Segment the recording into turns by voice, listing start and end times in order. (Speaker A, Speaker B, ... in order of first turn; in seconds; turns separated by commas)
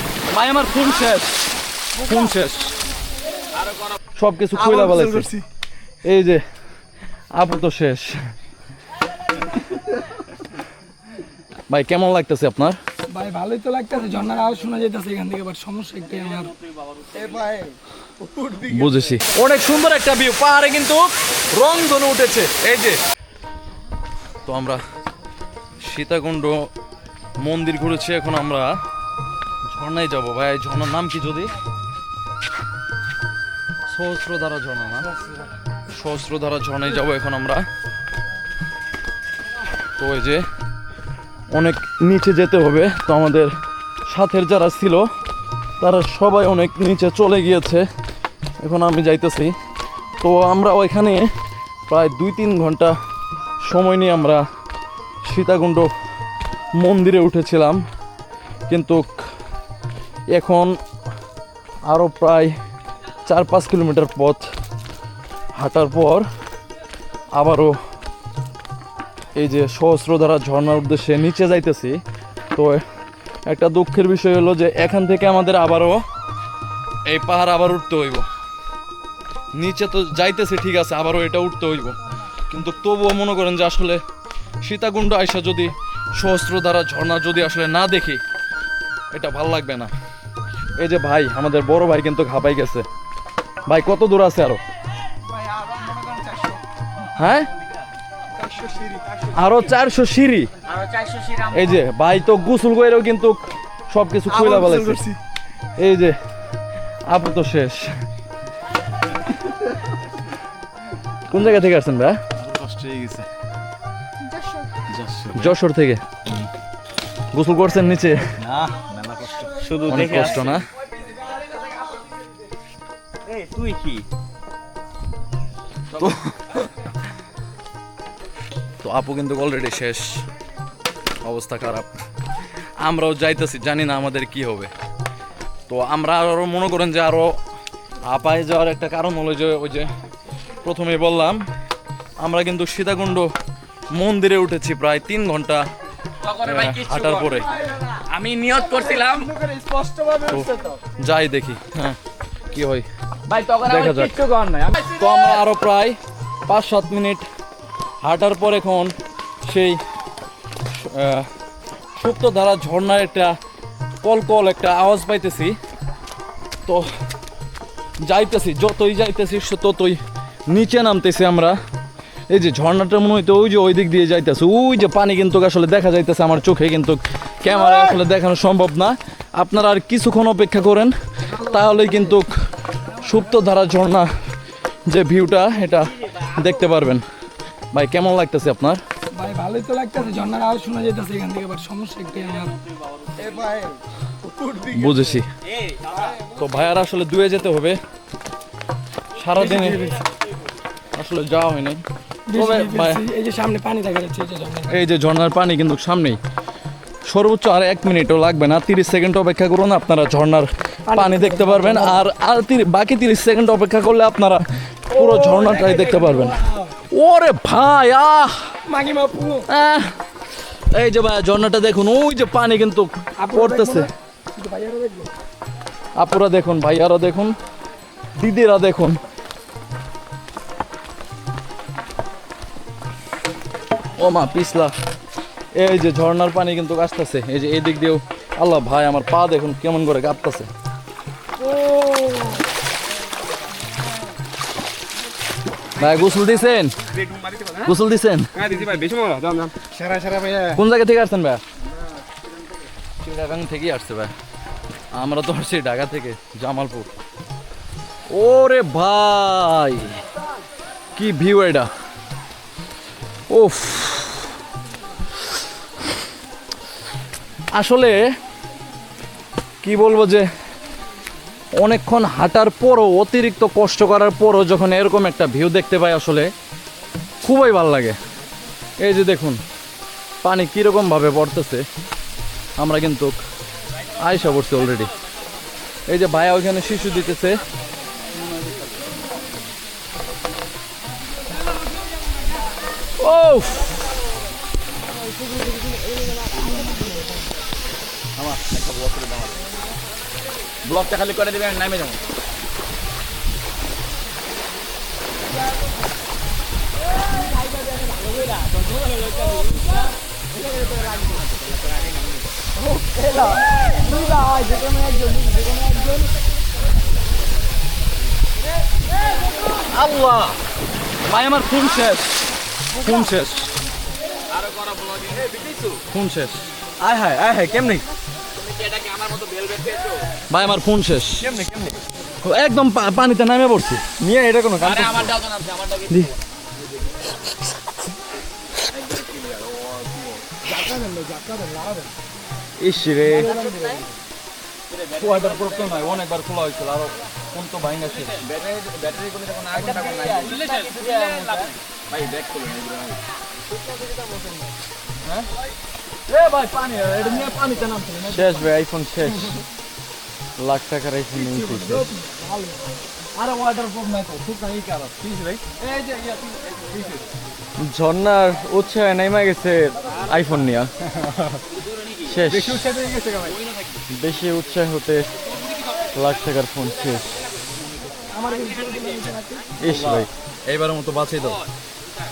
Speaker A: 0.3-1.3, Speaker A: 2.0-2.7, Speaker A: 4.2-5.3, Speaker A: 6.0-6.4, Speaker A: 7.3-8.2, Speaker A: 11.7-12.8, Speaker B: 13.1-16.5, Speaker A: 18.6-23.0, Speaker A: 24.4-24.8, Speaker A: 25.8-26.7, Speaker A: 27.4-28.7, Speaker A: 29.7-31.5, Speaker A: 33.9-35.1, Speaker A: 35.9-37.6, Speaker A: 40.0-40.4, Speaker A: 41.5-43.5, Speaker A: 44.1-45.1, Speaker A: 45.8-47.8, Speaker A: 48.6-49.5, Speaker A: 50.2-51.3, Speaker A: 51.9-52.9, Speaker A: 53.7-54.4, Speaker A: 55.2-55.9, Speaker A: 56.8-57.8, Speaker A: 58.7-59.1, Speaker A: 60.3-60.7, Speaker A: 61.9-62.5, Speaker A: 63.3-64.4, Speaker A: 65.6-66.2, Speaker A: 67.3-67.8, Speaker A: 69.3-72.0, Speaker A: 72.5-72.8, Speaker A: 73.5-76.0, Speaker A: 77.1-78.2, Speaker A: 79.5-82.0, Speaker A: 82.5-84.0, Speaker A: 84.6-88.2, Speaker A: 89.1-89.9, Speaker A: 90.8-92.8, Speaker A: 93.7-94.6, Speaker A: 97.2-97.5, Speaker A: 99.3-100.5, Speaker A: 101.5-105.1, Speaker A: 105.8-106.2, Speaker A: 107.1-107.9, Speaker A: 111.3-112.2, Speaker C: 112.4-113.2, Speaker C: 114.9-115.5, Speaker A: 115.3-116.0, Speaker A: 117.3-118.2, Speaker C: 118.4-120.6, Speaker A: 119.9-120.7, Speaker C: 123.2-124.0, Speaker A: 128.8-130.2, Speaker A: 131.2-131.9, Speaker A: 132.8-134.7, Speaker A: 135.7-137.4, Speaker A: 138.1-139.9, Speaker A: 140.6-141.4, Speaker A: 142.2-143.3, Speaker A: 143.9-145.6, Speaker A: 146.4-147.5, Speaker D: 146.7-147.2, Speaker D: 148.1-149.4, Speaker A: 150.2-152.0, Speaker A: 152.5-152.8, Speaker D: 153.3-154.8, Speaker A: 153.6-154.2, Speaker A: 154.8-157.2, Speaker A: 158.0-158.9, Speaker A: 159.5-159.8, Speaker A: 160.7-161.3, Speaker A: 162.0-163.3, Speaker A: 164.0-165.6, Speaker A: 168.0-170.0, Speaker A: 170.5-171.6, Speaker A: 172.3-182.3, Speaker A: 183.0-184.1, Speaker A: 184.9-187.0, Speaker A: 187.7-188.8, Speaker B: 189.1-192.6, Speaker A: 194.6-195.3, Speaker A: 196.3-197.8, Speaker A: 199.2-199.8, Speaker B: 199.6-200.0, Speaker A: 200.9-201.8, Speaker B: 202.3-204.7, Speaker A: 202.3-203.0, Speaker A: 204.7-206.2, Speaker A: 207.1-216.4, Speaker B: 210.9-212.0, Speaker B: 215.0-216.7, Speaker A: 216.9-218.3, Speaker B: 218.7-219.5, Speaker A: 219.5-219.9, Speaker A: 220.7-223.9, Speaker B: 223.2-225.1, Speaker A: 226.0-227.3, Speaker A: 228.2-229.0, Speaker A: 234.0-234.7, Speaker A: 235.6-240.5, Speaker B: 241.7-242.3, Speaker A: 245.8-246.7, Speaker A: 247.6-248.3, Speaker D: 248.5-249.5, Speaker A: 250.5-251.4, Speaker A: 253.0-254.1, Speaker A: 254.9-256.9, Speaker A: 258.1-259.9, Speaker A: 261.0-261.7, Speaker A: 263.3-264.3, Speaker A: 267.6-268.0, Speaker A: 269.6-270.2, Speaker A: 271.6-276.3, Speaker A: 277.2-278.0, Speaker A: 278.8-279.4, Speaker A: 280.2-281.6, Speaker A: 282.6-283.2, Speaker A: 284.0-284.9, Speaker A: 285.9-287.4, Speaker A: 293.0-293.7, Speaker D: 298.2-299.3, Speaker D: 300.6-302.0, Speaker B: 312.8-315.9, Speaker A: 319.7-320.3, Speaker A: 321.0-322.1, Speaker A: 322.8-323.6, Speaker D: 325.1-325.5, Speaker A: 325.9-326.5, Speaker C: 326.8-327.9, Speaker D: 328.8-330.0, Speaker A: 330.3-331.2, Speaker C: 331.2-331.8, Speaker A: 332.2-333.8, Speaker C: 334.0-335.2, Speaker D: 334.6-335.9, Speaker B: 340.6-341.8, Speaker C: 342.6-343.4, Speaker B: 343.3-343.8, Speaker A: 344.9-348.2, Speaker D: 348.3-351.5, Speaker C: 351.9-352.9, Speaker A: 356.1-358.2, Speaker C: 358.0-359.4, Speaker C: 360.4-361.9, Speaker B: 361.6-362.6, Speaker A: 363.2-364.7, Speaker C: 367.6-370.7, Speaker C: 372.1-372.8, Speaker D: 372.3-373.3, Speaker C: 373.9-375.1, Speaker C: 375.9-377.1, Speaker B: 378.1-379.6, Speaker C: 379.6-380.1, Speaker A: 379.6-381.4